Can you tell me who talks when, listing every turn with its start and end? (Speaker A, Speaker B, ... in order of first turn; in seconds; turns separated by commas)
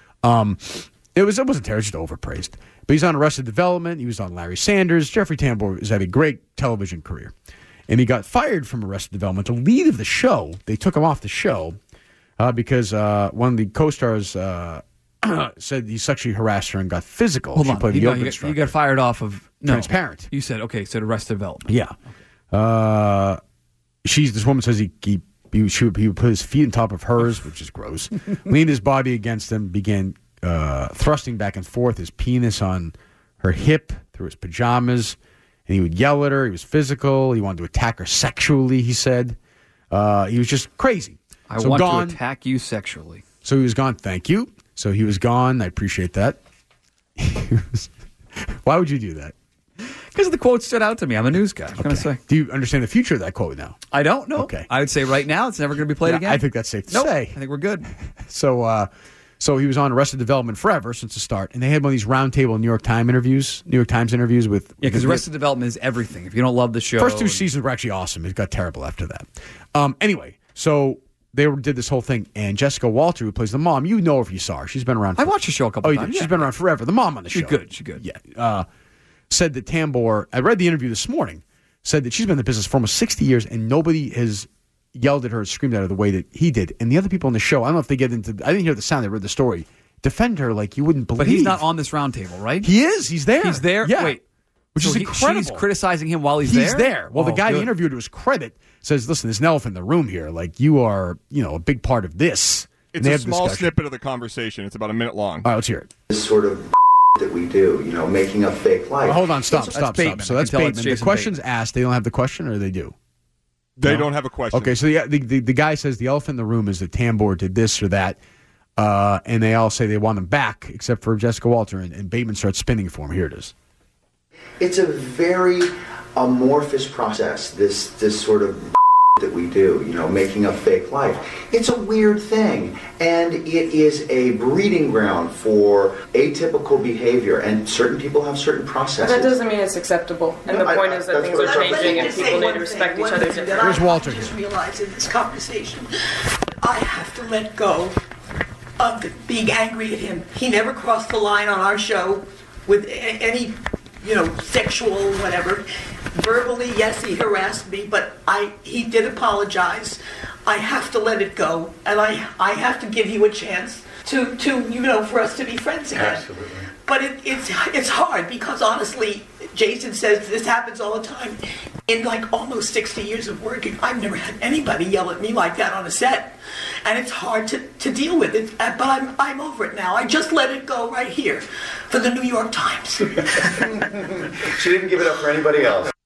Speaker A: 0.2-7.3, Speaker A: 7.9-11.8, Speaker A: 12.4-18.7, Speaker B: 17.6-21.7, Speaker A: 19.6-20.3, Speaker A: 21.7-21.9, Speaker A: 22.5-23.4, Speaker A: 24.0-39.4, Speaker A: 39.9-42.2, Speaker B: 41.5-43.2, Speaker A: 43.4-46.4, Speaker A: 47.2-49.4, Speaker B: 49.9-52.2, Speaker A: 51.8-53.8, Speaker B: 53.9-57.9, Speaker A: 54.3-54.7, Speaker A: 56.0-57.4, Speaker A: 58.1-58.9, Speaker A: 59.4-65.2, Speaker B: 64.8-67.4, Speaker A: 67.0-78.7, Speaker B: 75.2-76.5, Speaker B: 77.3-78.0, Speaker A: 79.3-91.6, Speaker B: 91.2-92.7, Speaker A: 92.6-94.2, Speaker B: 93.4-94.2, Speaker A: 94.7-95.7, Speaker B: 94.8-97.7, Speaker A: 96.4-103.7, Speaker C: 102.9-105.5, Speaker A: 105.4-105.9, Speaker D: 106.1-106.6, Speaker D: 107.2-109.2, Speaker A: 109.0-112.9, Speaker B: 109.5-111.3, Speaker C: 113.8-114.8, Speaker A: 113.8-118.2, Speaker A: 118.8-123.5, Speaker D: 124.6-128.7, Speaker D: 129.2-139.3, Speaker E: 139.0-143.7, Speaker D: 140.5-142.4, Speaker F: 141.2-145.9, Speaker A: 143.6-144.3, Speaker F: 146.6-147.9, Speaker F: 148.8-183.5, Speaker D: 183.7-185.9